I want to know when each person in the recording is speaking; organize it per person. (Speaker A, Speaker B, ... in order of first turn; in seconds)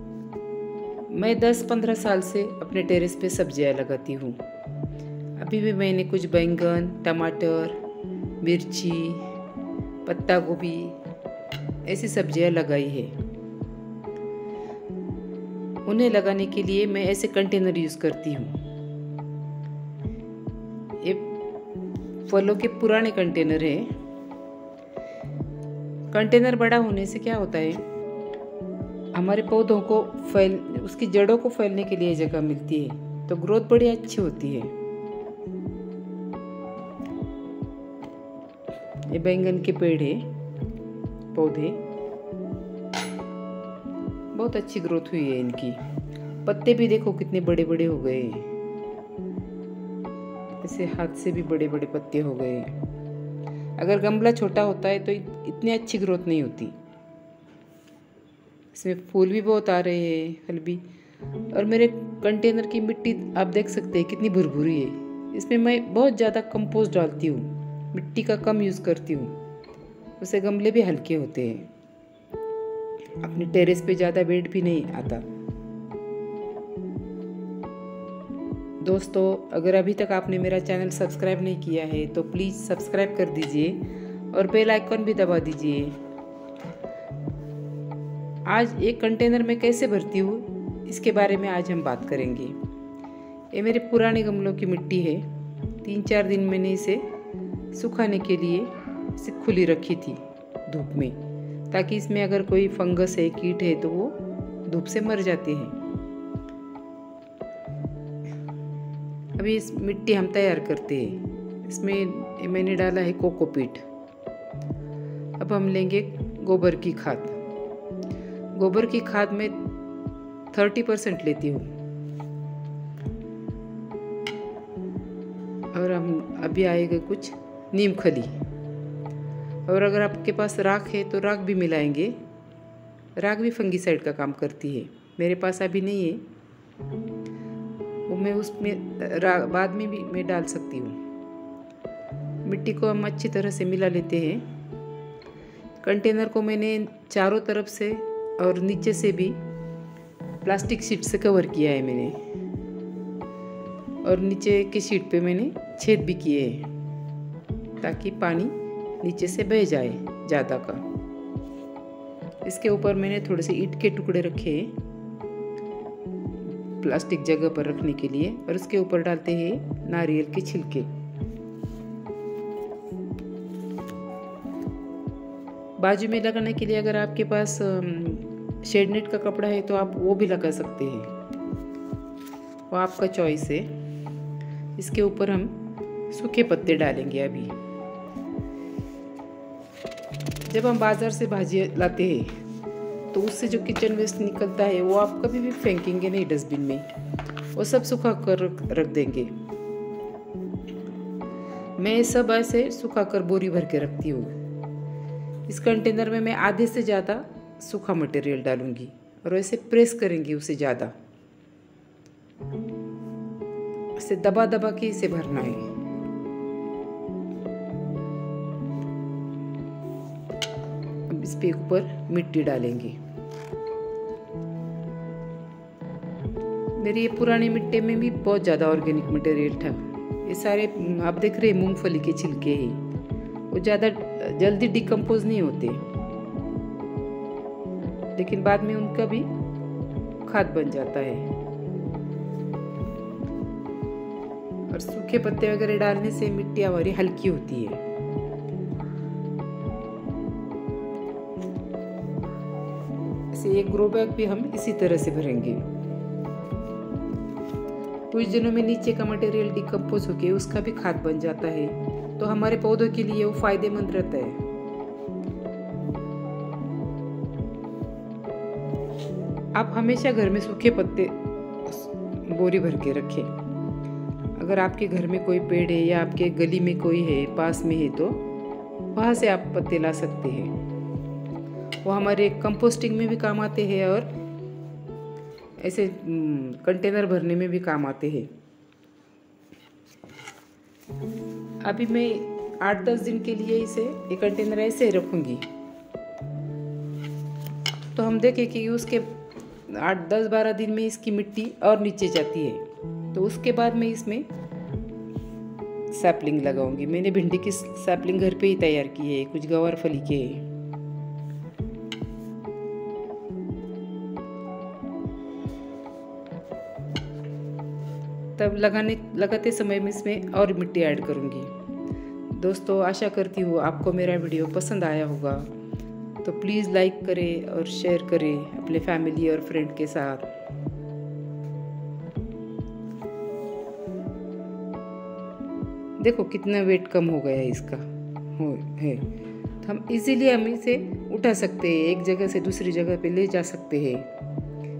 Speaker A: 1.1-4.4, 5.4-7.8, 8.4-9.3, 10.1-11.0, 11.8-13.2, 15.9-18.6, 21.0-21.3, 22.3-23.9, 26.1-27.8, 29.1-34.7, 39.1-40.3, 41.3-41.8, 44.3-45.8, 46.5-48.5, 50.6-52.7, 53.8-56.8, 58.7-60.8, 61.5-69.4, 70.2-71.7, 73.2-75.2, 78.8-86.0, 88.5-92.6, 93.5-95.3, 95.8-97.1, 97.7-101.2, 101.7-105.8, 109.4-113.8, 115.4-117.4, 118.5-119.6, 120.5-121.7, 125.7-128.3, 129.7-132.2, 133.2-136.3, 138.1-141.0, 142.4-144.5, 145.8-149.4, 150.4-152.2, 154.0-156.7, 157.8-160.8, 162.4-164.8, 166.8-170.9, 175.8-181.1, 182.7-183.7, 184.8-185.6, 186.1-187.5, 190.5-192.4, 193.1-196.9, 197.6-199.3, 201.8-204.4, 205.5-210.9, 214.0-215.7, 221.1-223.0, 226.8-232.8, 233.5-235.8, 238.2-239.3, 240.2-241.3, 244.7-247.8, 253.3-255.7, 258.1-264.4, 269.6-273.3, 274.4-278.2, 278.9-280.6, 281.9-284.1, 285.6-288.3, 291.6-295.5, 297.9-299.1, 299.7-304.3, 305.9-310.5, 318.4-321.5, 322.3-325.5, 326.2-330.3, 336.0-339.1, 339.6-344.1